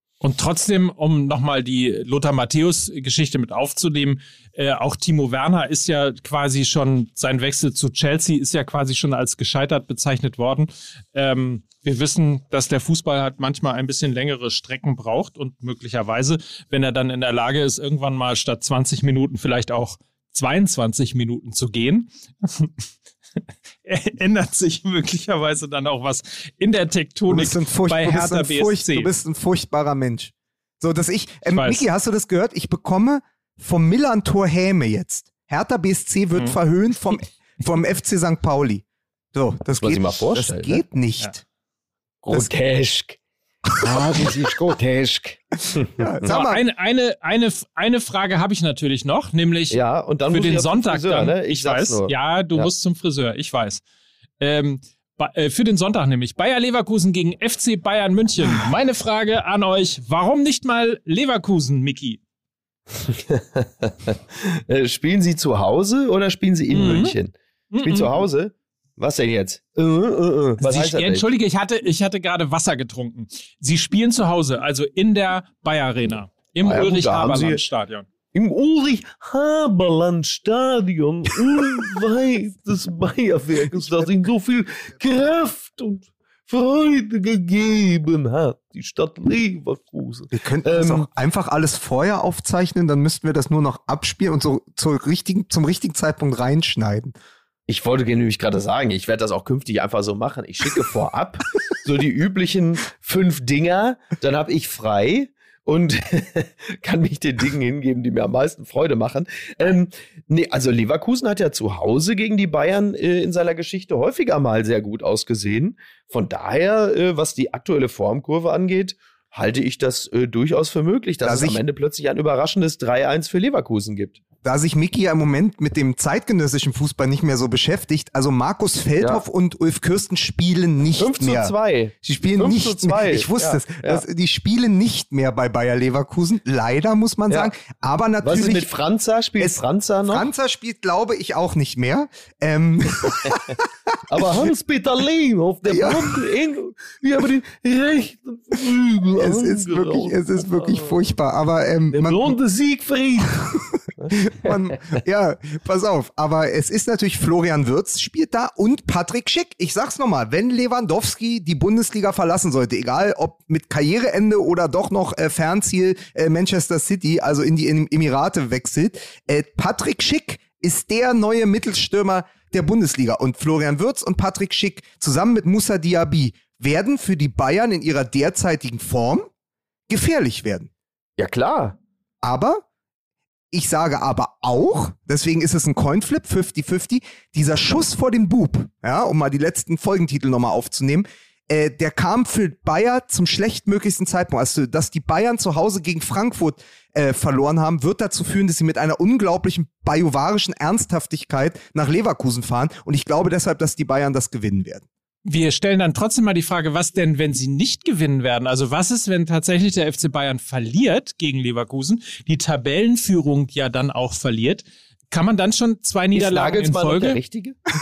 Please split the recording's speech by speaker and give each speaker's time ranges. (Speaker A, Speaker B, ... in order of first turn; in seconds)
Speaker A: 0.2-22.7, 23.9-29.1, 31.5-31.8, 46.3-49.8, 50.3-53.8, 54.4-62.2, 66.7-67.2, 67.7-68.2, 70.6-78.1, 205.2-217.2
Speaker B: 27.3-41.4, 43.7-44.0, 46.0-46.6, 90.3-97.2, 121.2-121.6, 124.4-138.7, 139.4-144.3, 145.7-146.2, 149.2-152.3, 154.2-179.3, 179.9-180.7, 182.2-182.6, 183.5-204.8
Speaker C: 39.8-40.8, 42.2-43.2, 43.8-46.4, 49.7-52.7, 63.0-71.2, 76.6-77.6, 78.3-91.1, 97.7-124.2, 131.0-134.0, 138.2-140.3, 143.2-143.5, 144.1-150.9, 151.9-155.0, 181.2-181.8, 216.1-217.6